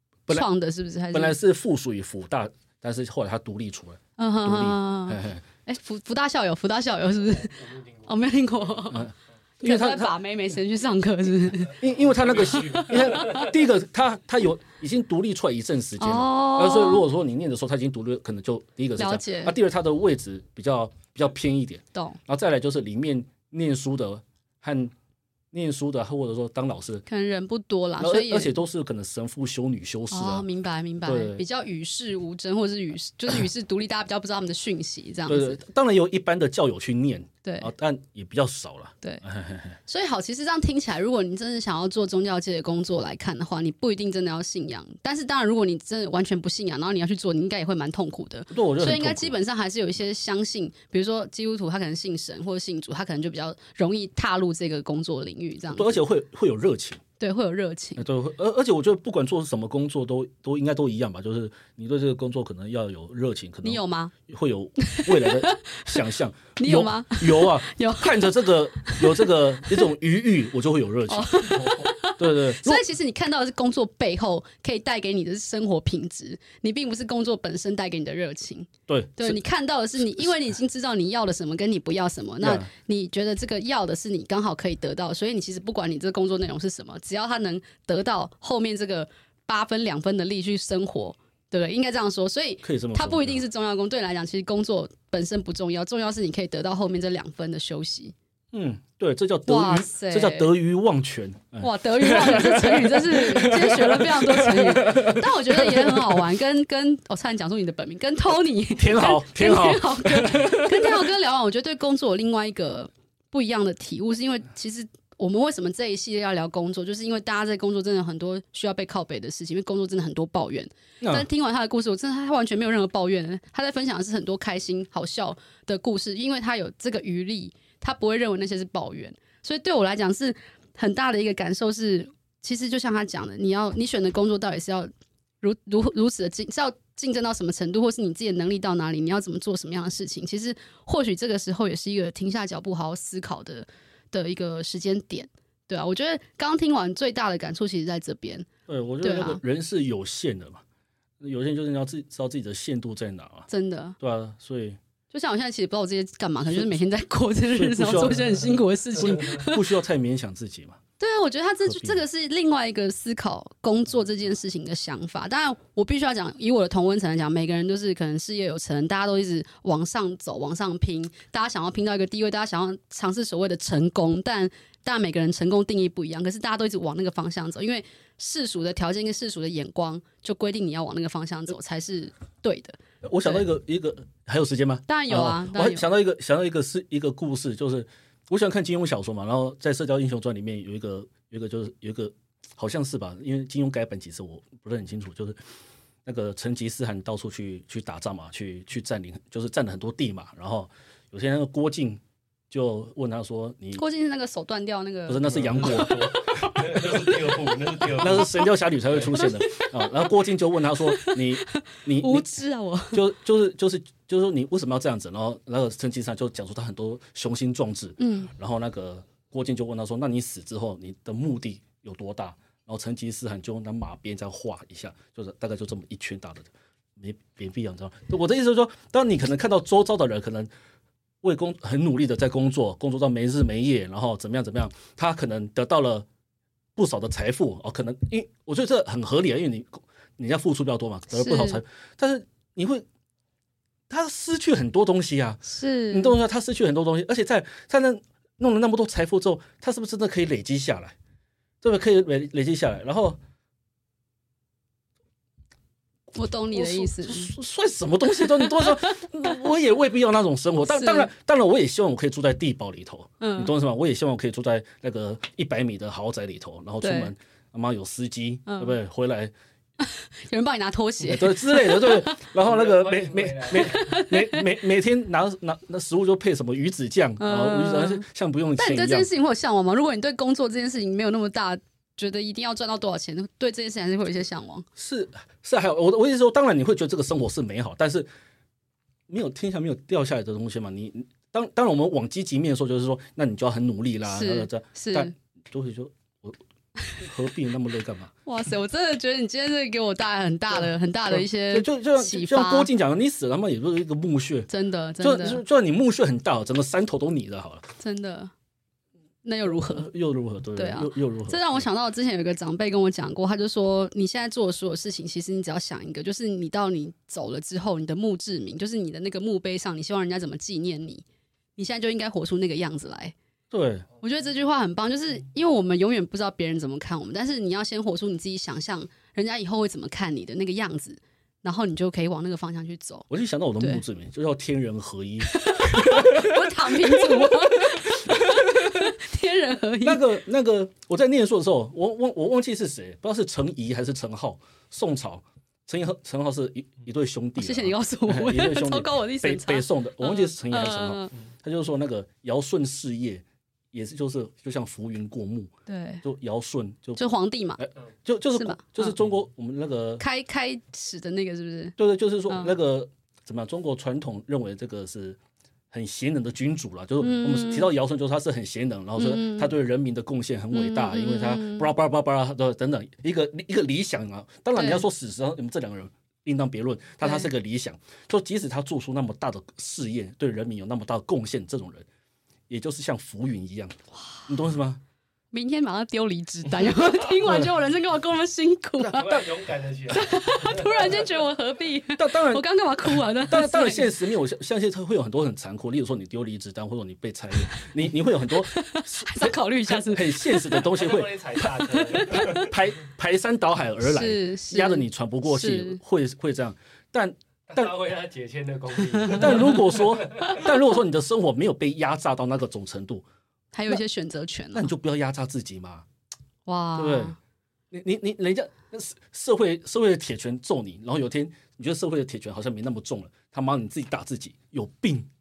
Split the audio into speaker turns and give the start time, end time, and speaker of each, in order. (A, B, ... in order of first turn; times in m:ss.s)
0:00.3-0:01.4 A
0:01.1-0:05.4 B
0:04.2-0:09.1 A
0:08.9-0:10.1 B
0:09.6-0:11.8 A
0:11.8-0:24.9 B
0:12.5-0:13.0 C
0:12.6-0:13.4 A
0:16.0-0:17.0 A
0:19.0-0:19.5 A
0:25.5-0:27.0 B
0:27.1-0:28.5 A
0:28.0-0:30.5 B
0:30.1-0:35.6 A
0:31.0-0:31.4 B
0:35.3-0:39.8 B
0:37.4-0:37.7 A
0:39.8-0:56.0 A
0:48.5-0:49.4 B
0:55.7-0:57.0 B
0:57.2-0:58.0 A
0:58.0-1:12.8 B
1:03.6-1:04.1 A
1:04.8-1:06.0 A
1:06.6-1:09.8 A
1:11.1-1:38.1 A
1:18.9-1:19.4 B
1:22.4-1:22.7 B
1:32.6-1:33.4 B
1:38.5-1:46.3 B
1:39.4-1:40.5 A
1:41.6-2:14.9 A
1:48.7-1:51.1 B
2:01.0-2:01.3 B
2:15.4-2:28.5 A
2:28.7-2:30.6 B
2:29.0-2:29.4 A
2:31.2-2:34.8 B
2:33.5-2:34.0 A
2:35.1-2:39.7 A
2:37.5-2:40.8 B
2:41.0-3:03.4 A
2:41.7-2:42.0 B
3:03.0-3:15.4 B
3:04.9-3:05.8 A
3:16.0-3:23.8 B
3:23.7-3:27.0 A
3:25.1-3:27.1 B
3:25.5-3:28.3 C
3:27.9-3:32.4 B
3:29.1-3:30.1 A
3:30.8-3:33.0 A
3:32.9-3:50.5 B
3:38.0-3:38.3 A
3:51.2-3:56.1 B
3:56.8-4:02.8 B
4:01.1-4:01.6 A
4:03.9-4:11.0 B
4:05.5-4:06.2 A
4:11.6-4:13.2 B
4:16.1-4:17.3 A
4:16.5-4:29.3 B
4:20.6-4:21.1 A
4:23.2-4:23.5 A
4:26.8-4:27.1 A
4:28.5-4:28.7 A
4:29.8-4:32.2 A
4:31.0-4:39.1 B
4:32.4-4:33.9 C
4:33.7-4:34.4 A
4:37.2-4:38.0 A
4:38.6-4:44.7 A
4:44.8-4:48.1 B
4:49.1-4:56.4 B
4:54.1-4:55.1 A
4:57.0-4:58.1 B
4:58.2-5:02.7 A
5:01.1-5:04.5 B
5:04.5-5:05.4 A
5:05.0-5:07.7 B
5:07.8-5:08.3 A
5:09.2-5:09.9 A
5:09.6-5:11.6 B
5:10.6-5:21.0 A
5:21.6-5:23.1 A
5:23.5-5:23.9 B
5:24.0-5:33.1 A
5:33.1-5:38.9 B
5:35.3-5:40.2 A
5:39.8-5:57.0 B
5:47.4-5:51.1 A
5:55.7-5:56.0 A
5:57.0-5:57.6 A
5:57.6-6:00.0 B
5:58.3-5:59.0 A
6:00.0-6:01.8 A
6:01.8-6:05.2 B
6:02.3-6:02.5 A
6:05.7-6:21.9 B
6:07.0-6:07.7 A
6:09.0-6:09.5 A
6:10.5-6:11.7 A
6:14.6-6:14.8 A
6:17.0-6:17.3 A
6:22.5-6:23.7 B
6:24.3-6:24.8 B
6:25.3-6:29.2 A
6:28.8-6:31.0 C
6:28.9-6:29.2 B
6:29.9-6:33.9 A
6:32.0-6:47.8 B
6:38.3-6:40.6 A
6:40.6-6:42.5 C
6:42.1-6:42.4 A
6:43.8-6:45.8 A
6:47.5-6:50.4 C
6:49.0-6:53.0 B
6:53.5-6:54.7 A
6:54.5-6:55.8 B
6:56.4-6:57.2 A
6:56.8-6:57.2 B
6:57.7-7:05.1 B